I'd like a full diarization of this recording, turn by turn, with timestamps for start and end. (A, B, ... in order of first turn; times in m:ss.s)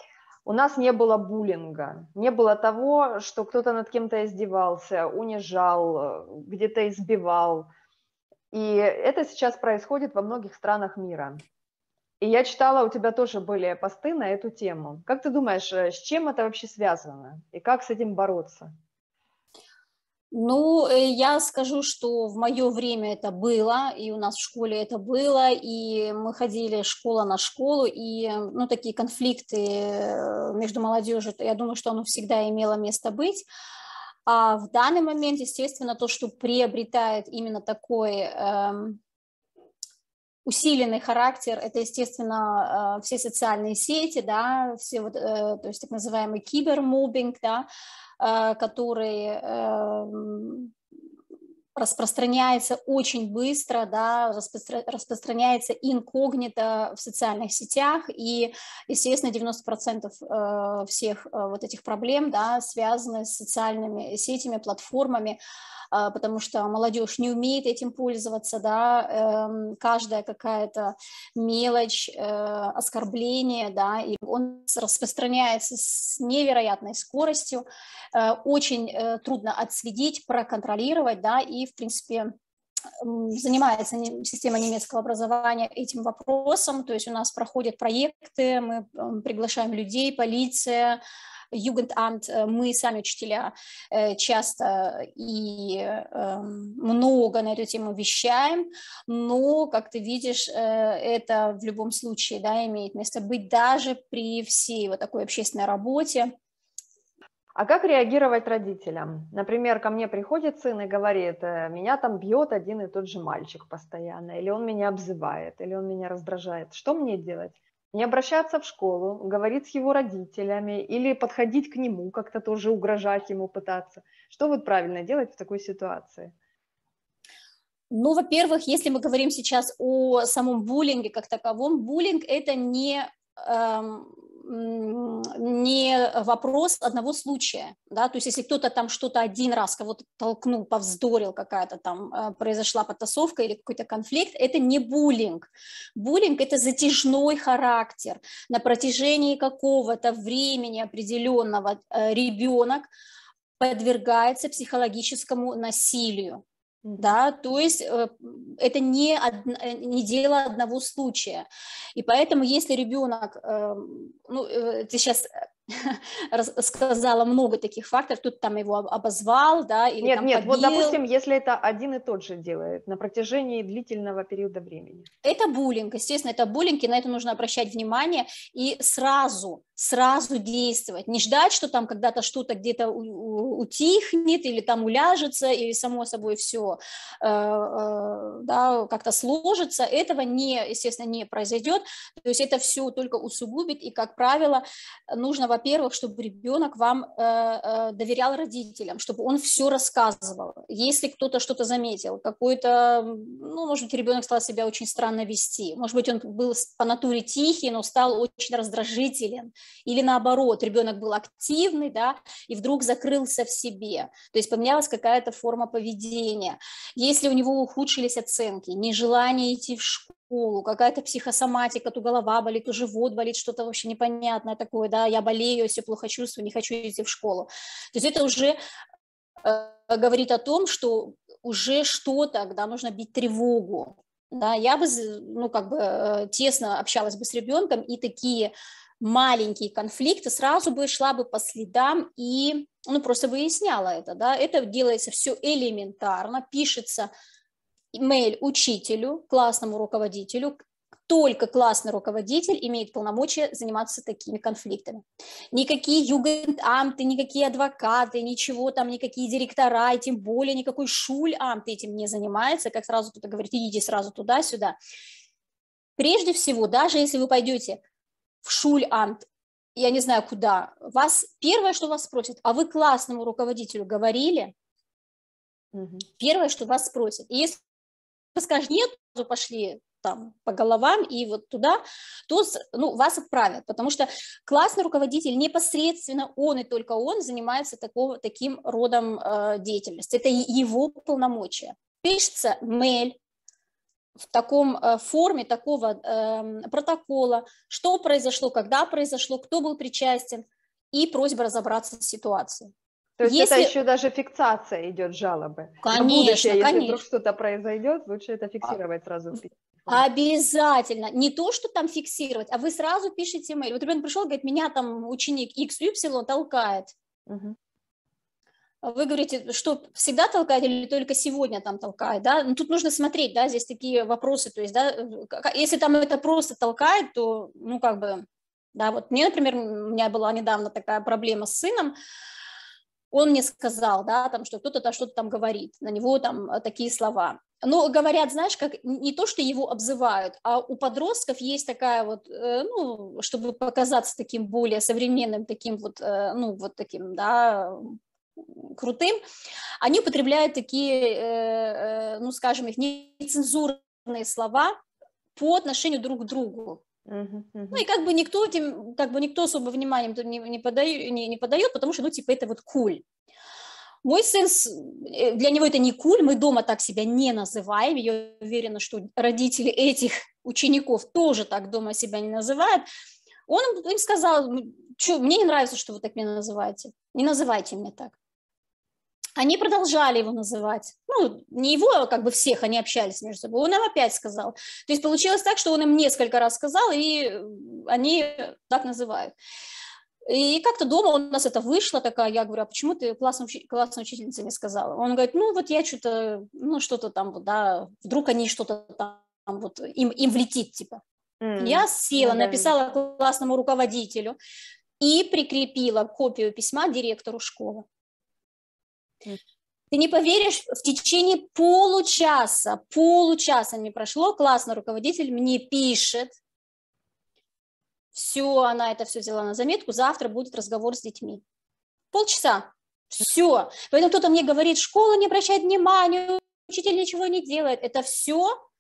0:00.5-0:07.7 A
0:08.5-0:11.4 A
0:12.2-0:18.7 A
0:20.3-0:33.5 B
0:34.3-0:39.0 B
0:40.5-0:47.7 B
0:48.2-0:50.7 B
0:51.8-1:05.4 B
1:05.9-1:22.3 B
1:23.0-1:31.0 B
1:31.5-1:46.3 B
1:47.6-2:06.3 A
2:07.9-2:32.9 B
2:33.6-2:36.4 B
2:36.8-2:37.2 A
2:37.0-2:51.0 B
2:50.0-2:55.1 A
2:55.2-3:48.6 B
3:49.4-4:07.1 B
4:07.9-4:24.8 B
4:26.0-4:27.8 B
4:28.4-4:34.5 B
4:35.7-4:36.1 A
4:36.2-4:37.6 B
4:38.4-4:53.2 B
4:54.3-5:03.7 B
5:03.2-5:10.0 A
5:05.8-5:07.0 B
5:09.9-5:16.9 B
5:17.3-5:17.6 A
5:18.8-5:32.0 B
5:33.1-5:49.2 B
5:49.8-5:54.8 B
5:55.4-5:56.8 B
5:57.1-5:57.8 A
5:57.7-6:03.0 B
6:04.0-6:12.8 B
6:13.5-6:18.2 B
6:19.4-6:29.4 B
6:30.3-6:41.0 B
6:41.4-6:42.7 A
6:41.6-6:44.4 B
6:45.0-6:47.8 B
6:49.9-6:56.4 B
6:58.1-7:01.4 B
7:02.1-7:08.5 B